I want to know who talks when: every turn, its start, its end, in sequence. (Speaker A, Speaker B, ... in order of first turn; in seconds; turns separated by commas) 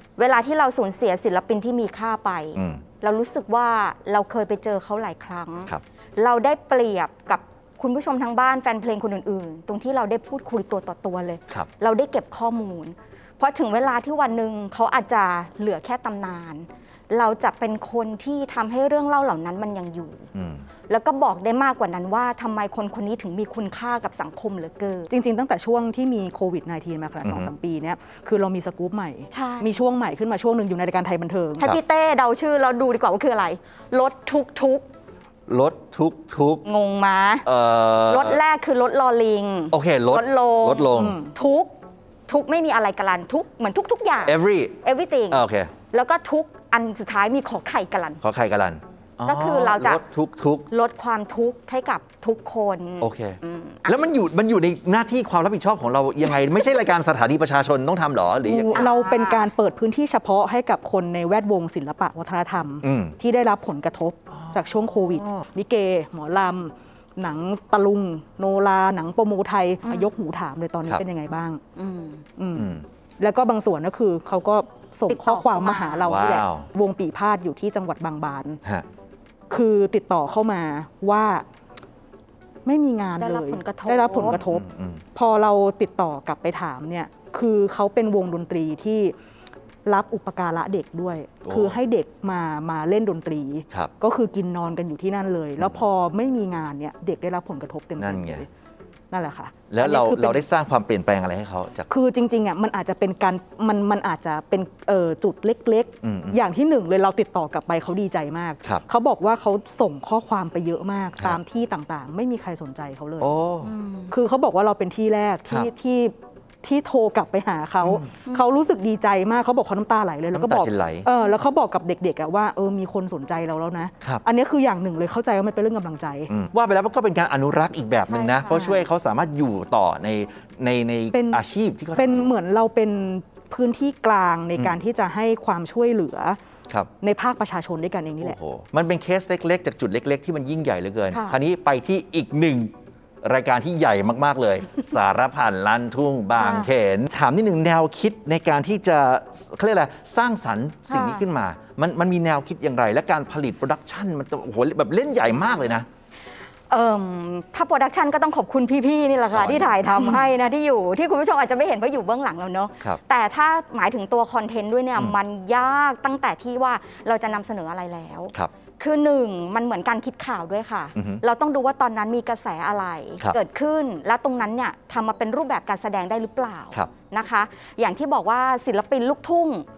Speaker A: 0.2-20.3, Speaker B: 2.6-2.8, Speaker B: 20.4-20.7, Speaker A: 20.9-25.1, Speaker C: 25.1-31.7, Speaker B: 27.2-27.5, Speaker A: 29.3-29.7, Speaker A: 31.6-34.9, Speaker B: 35.5-36.6, Speaker A: 36.6-37.5, Speaker B: 37.5-38.4, Speaker A: 38.1-41.7, Speaker B: 39.7-41.2, Speaker C: 40.9-41.3, Speaker A: 42.3-48.2, Speaker B: 44.2-44.8, Speaker B: 45.3-45.7, Speaker B: 48.2-50.7, Speaker A: 49.2-50.0, Speaker A: 50.7-54.0, Speaker B: 53.0-58.9, Speaker C: 58.5-71.6, Speaker A: 58.7-59.5, Speaker B: 62.8-63.2, Speaker B: 65.1-65.4, Speaker A: 71.8-72.2, Speaker C: 72.4-78.6, Speaker B: 72.6-72.9, Speaker A: 75.1-76.2, Speaker B: 76.1-76.7, Speaker C: 79.5-81.4, Speaker C: 82.7-84.6, Speaker A: 83.2-84.4, Speaker B: 84.3-85.0, Speaker C: 85.1-89.1, Speaker C: 89.8-98.5, Speaker B: 91.5-91.8, Speaker B: 98.0-98.5, Speaker C: 99.1-100.5, Speaker B: 99.7-101.9, Speaker C: 101.9-113.3, Speaker B: 106.0-106.4, Speaker B: 113.2-113.7, Speaker A: 113.6-114.2, Speaker C: 114.1-126.3, Speaker B: 120.3-121.1, Speaker B: 126.3-132.3, Speaker A: 128.1-128.6, Speaker C: 128.5-128.8, Speaker C: 131.1-131.4, Speaker C: 131.9-136.4, Speaker C: 137.0-138.4, Speaker B: 138.2-155.9, Speaker A: 141.1-141.4, Speaker A: 146.4-146.7, Speaker A: 150.9-151.2, Speaker A: 156.7-179.7, Speaker B: 159.3-159.9, Speaker B: 171.0-171.2